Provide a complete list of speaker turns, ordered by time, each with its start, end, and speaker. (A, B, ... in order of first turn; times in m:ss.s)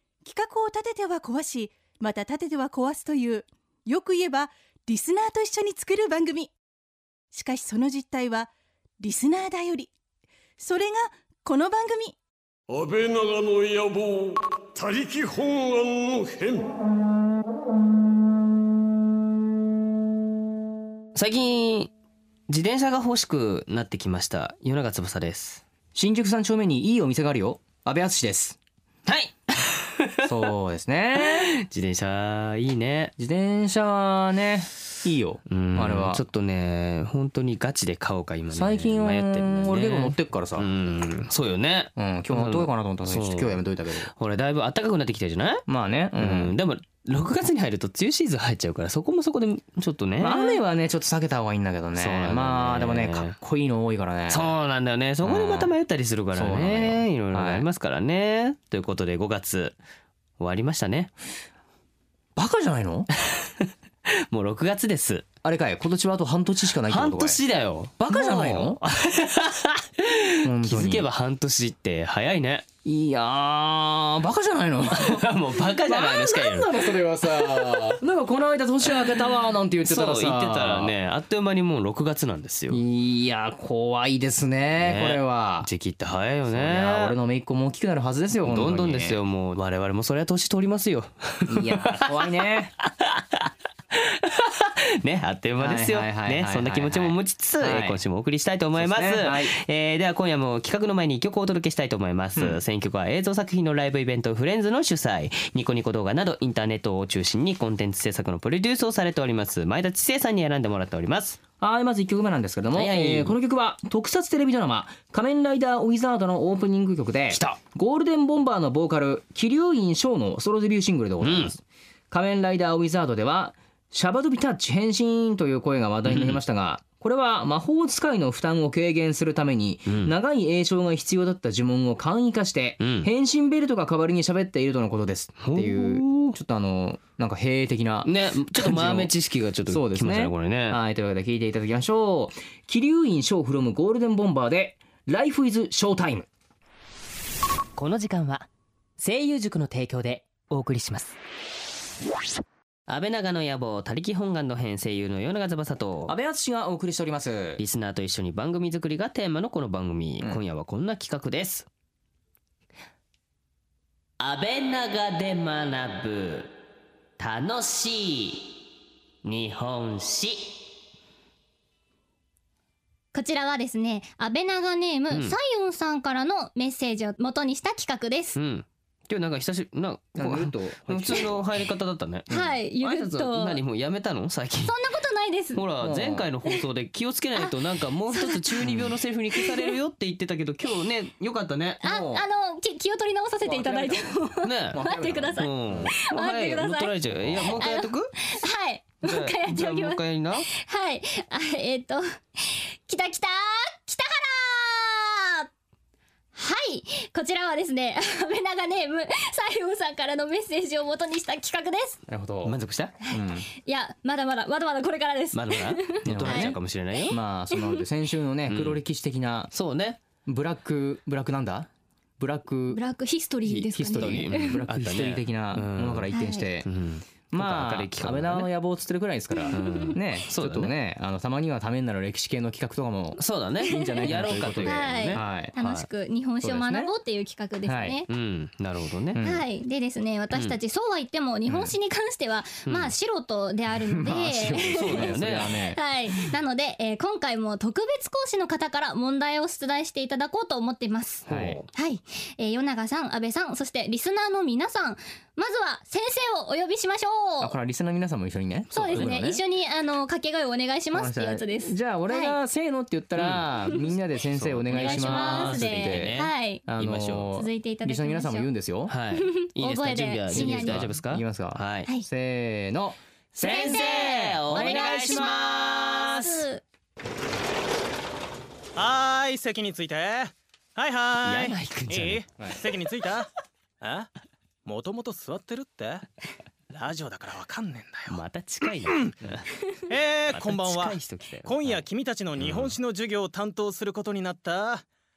0:00.2-0:06.5 A
0:07.3-0:09.9 A
0:10.6-0:12.2 A
0:12.7-0:16.7 B
0:21.2-0:21.9 C
0:22.5-0:25.6 C
0:26.0-0:28.6 D
0:29.1-0:30.5 C
0:30.2-0:31.6 D
0:31.2-0:33.1 C
0:33.2-0:36.2 D
0:35.5-0:45.6 C
0:38.5-0:40.7 D
0:42.0-0:44.1 D
0:45.7-0:46.6 D
0:46.2-0:50.6 C
0:50.2-0:54.5 D
0:52.0-0:53.4 C
0:54.3-0:59.8 C
0:55.2-0:55.7 D
0:56.3-0:57.7 D
1:00.4-1:01.1 C
1:02.4-1:03.1 D
1:03.2-1:05.2 C
1:05.4-1:07.4 D
1:06.9-1:12.7 C
1:08.0-1:08.8 D
1:10.4-1:11.1 D
1:12.8-1:21.0 D
1:14.9-1:18.0 C
1:18.8-1:19.2 C
1:19.8-1:22.8 C
1:22.7-1:25.7 D
1:24.8-1:27.2 C
1:26.5-1:29.2 D
1:28.4-1:51.4 C
1:31.5-1:32.7 D
1:35.6-1:38.0 D
1:38.8-1:39.6 D
1:42.4-1:42.6 D
1:51.6-2:19.1 D
1:52.7-1:53.4 C
1:57.3-1:57.6 C
2:01.2-2:01.6 C
2:06.1-2:06.4 C
2:09.9-2:10.2 C
2:12.8-2:13.1 C
2:15.4-2:16.4 C
2:18.0-2:20.8 C
2:19.7-2:26.3 D
2:27.8-2:31.2 C
2:32.9-2:36.2 C
2:36.1-2:37.6 D
2:37.6-2:41.7 C
2:44.2-2:46.5 C
2:47.2-2:48.6 C
2:49.2-2:50.7 C
2:53.1-2:58.4 E
2:55.1-2:55.4 C
2:58.4-3:04.8 C
3:00.2-3:01.4 D
3:02.3-3:02.6 D
3:02.3-3:03.6 E
3:04.6-3:05.7 E
3:05.6-3:11.8 C
3:05.8-3:06.3 D
3:08.1-3:09.7 E
3:11.8-3:12.2 D
3:11.8-3:25.5 E
3:13.4-3:14.2 D
3:14.4-3:14.8 C
3:14.7-3:15.9 D
3:15.4-3:18.2 C
3:19.0-3:20.5 C
3:26.4-3:32.0 E
3:32.1-3:32.6 D
3:32.4-3:33.0 C
3:33.1-3:37.8 E
3:33.1-3:33.5 D
3:35.3-3:37.2 C
3:36.1-3:36.6 D
3:37.1-3:39.5 D
3:38.5-3:38.8 C
3:39.5-3:40.0 C
3:40.2-3:42.8 D
3:42.7-3:44.6 E
3:43.4-3:46.7 D
3:44.0-3:46.1 C
3:46.1-3:46.5 E
3:46.6-3:48.5 C
3:47.3-3:55.5 D
3:49.4-3:49.9 E
3:49.5-3:50.7 C
3:53.2-3:55.9 C
3:53.7-3:58.1 E
3:56.4-3:56.9 D
3:57.7-3:58.0 D
3:58.1-3:59.2 C
3:59.1-3:59.4 D
3:59.2-4:05.2 E
4:01.5-4:01.7 D
4:02.7-4:02.9 C
4:03.7-4:05.8 D
4:04.7-4:05.7 C
4:05.7-4:17.6 E
4:11.3-4:11.7 C
4:11.3-4:11.6 D
4:17.4-4:19.4 D
4:18.7-4:19.2 C
4:18.7-4:22.4 E
4:20.9-4:28.9 D
4:23.2-4:23.5 C
4:24.4-4:27.4 C
4:24.8-4:26.7 E
4:27.3-4:28.5 E
4:28.9-4:31.9 C
4:29.2-4:30.8 E
4:30.3-4:35.6 D
4:33.4-4:36.4 C
4:33.4-4:36.6 E
4:38.8-4:43.3 F
4:41.2-4:42.2 C
4:43.8-4:44.1 F
4:44.7-4:46.1 F
4:46.7-4:49.1 F
4:48.1-4:49.5 C
4:49.9-4:54.9 F
4:50.3-4:51.9 C
4:52.4-4:52.8 C